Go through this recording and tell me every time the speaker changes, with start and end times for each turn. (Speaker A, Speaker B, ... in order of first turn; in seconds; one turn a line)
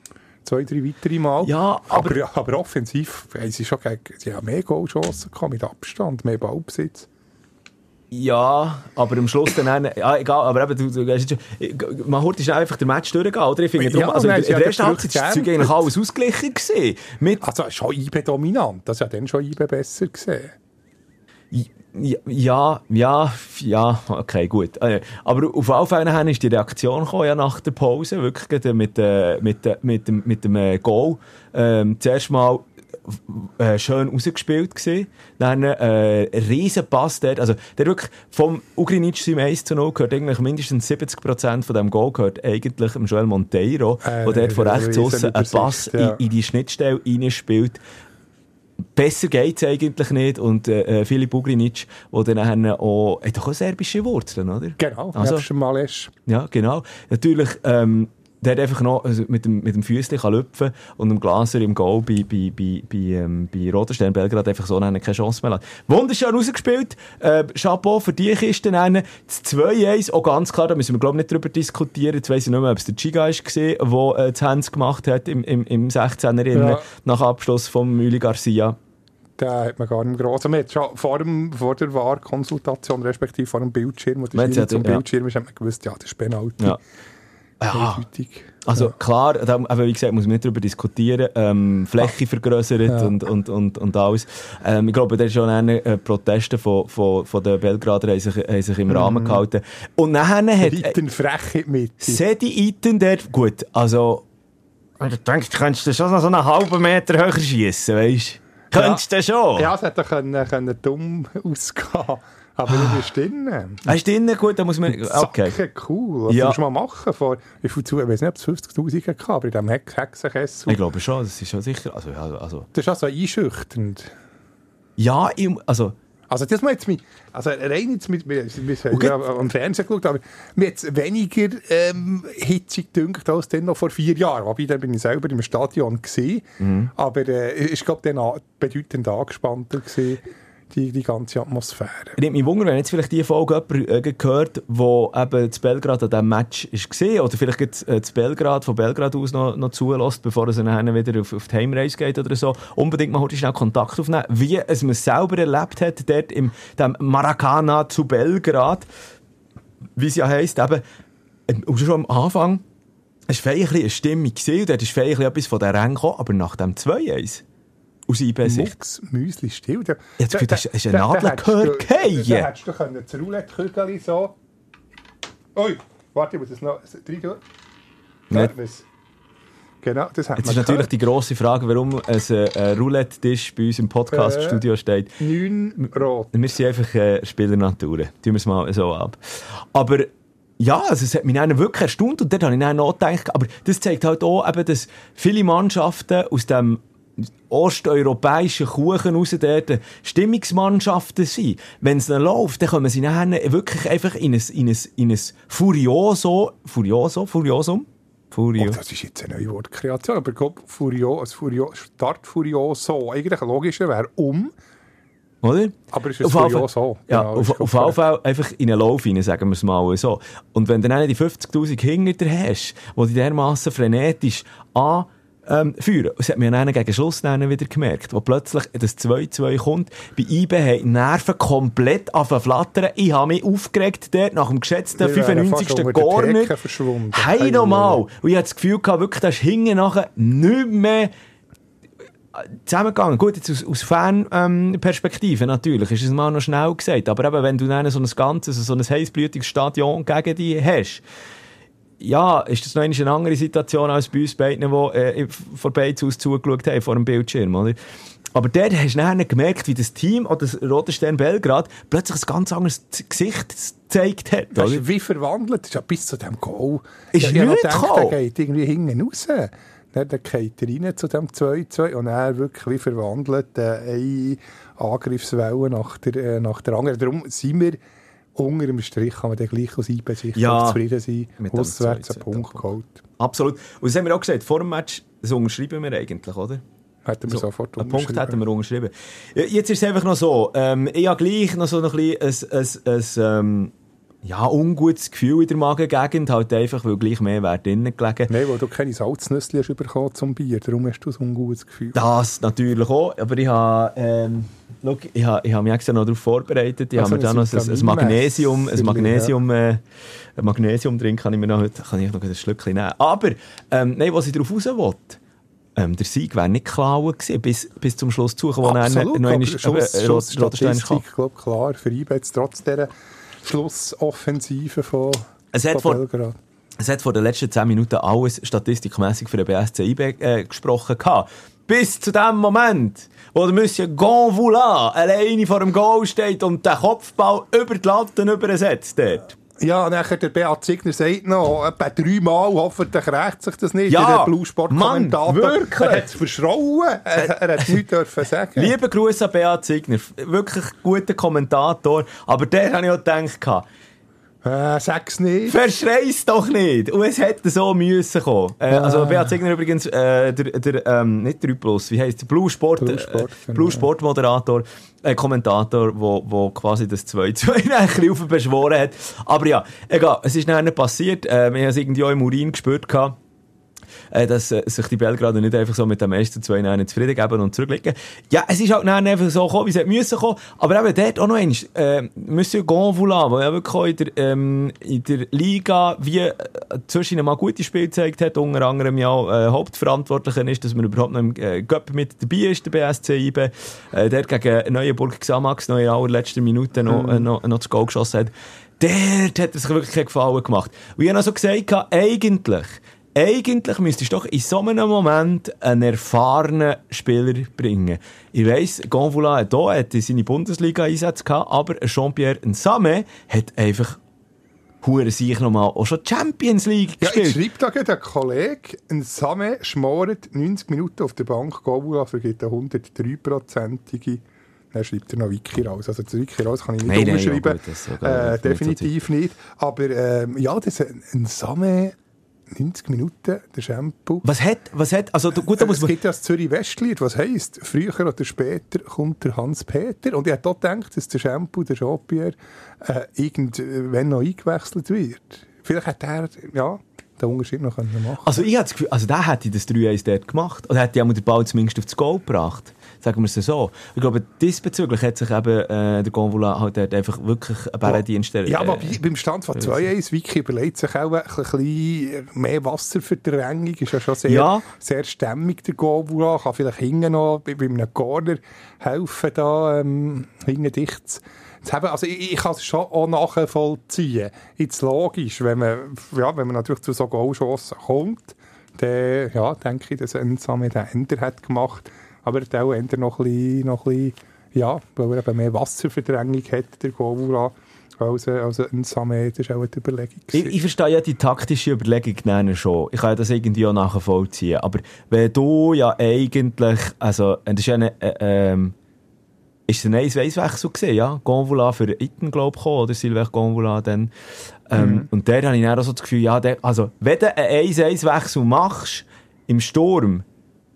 Speaker A: 0.4-7.1
Speaker B: 1.4-2.2
Speaker B: 8.1-17.4
Speaker A: 13.7-15.9
Speaker A: 17.4-20.5
Speaker B: 21.5-47.8
Speaker A: 44.0-46.2
Speaker B: 49.0-55.5
Speaker A: 54.8-56.1
Speaker B: 56.2-78.8
Speaker A: 76.5-76.8
Speaker A: 79.4-86.8
Speaker B: 84.3-85.0
Speaker B: 87.6-88.0
Speaker A: 87.7-88.9
Speaker B: 88.6-101.0
Speaker A: 92.8-93.1
Speaker A: 98.9-99.4
Speaker A: 100.6-102.2
Speaker B: 102.0-104.2
Speaker B: 105.0-109.7
Speaker A: 108.7-109.0
Speaker A: 109.5-113.9
Speaker B: 113.8-115.6
Speaker A: 114.9-120.8
Speaker B: 116.3-116.6
Speaker B: 120.7-122.7
Speaker A: 122.7-124.1
Speaker B: 125.0-125.9
Speaker A: 126.3-142.2
Speaker B: 128.9-129.2
Speaker B: 136.6-136.9
Speaker B: 142.2-158.9
Speaker B: 160.0-160.8
Speaker B: 161.5-162.6
Speaker B: 163.3-167.4
Speaker B: 168.1-168.7
Speaker A: 168.4-174.3
Speaker B: 170.2-172.5
Speaker A: 175.5-177.4
Speaker A: 178.3-178.8
Speaker A: 179.8-180.9
Speaker B: 180.4-185.1
Speaker A: 184.1-184.6
Speaker A: 185.2-186.4
Speaker B: 186.3-196.8
Speaker B: 197.5-208.8
Speaker A: 208.6-214.5
Speaker B: 215.4-236.5
Speaker A: 215.9-218.0
Speaker A: 235.0-238.0
Speaker B: 237.1-241.1
Speaker B: 242.3-251.0
Speaker B: 252.0-257.8
Speaker B: 258.3-264.9
Speaker A: 264.5-277.8
Speaker B: 267.1-268.1
Speaker A: 278.4-283.0
Speaker B: 280.3-280.8
Speaker B: 281.4-282.7
Speaker B: 283.2-286.6
Speaker A: 287.1-288.4
Speaker B: 287.3-293.7
Speaker B: 294.2-298.3
Speaker A: 298.3-302.0
Speaker B: 301.9-309.8
Speaker A: 306.9-309.3
Speaker B: 310.4-315.2
Speaker B: 315.8-321.0
Speaker A: 318.6-322.9
Speaker A: 323.4-326.4
Speaker B: 325.5-326.0
Speaker B: 326.8-339.4
Speaker A: 339.6-348.7
Speaker B: 343.9-346.1
Speaker B: 347.2-347.8
Speaker B: 348.6-353.6
Speaker A: 354.4-355.6
Speaker B: 355.5-373.1
Speaker A: 358.7-359.3
Speaker A: 362.8-363.9
Speaker B: 374.1-414.0
Speaker A: 396.9-397.3
Speaker B: 414.8-417.4
Speaker A: 417.0-424.2
Speaker A: 424.7-431.9
Speaker B: 426.8-428.9
Speaker A: 432.5-434.2
Speaker B: 434.2-435.9
Speaker A: 435.4-448.4
Speaker B: 448.2-459.0
Speaker A: 457.8-490.6
Speaker B: 464.3-464.6
Speaker B: 490.3-498.7
Speaker B: 499.7-504.1
Speaker B: 504.7-510.2
Speaker A: 504.8-505.1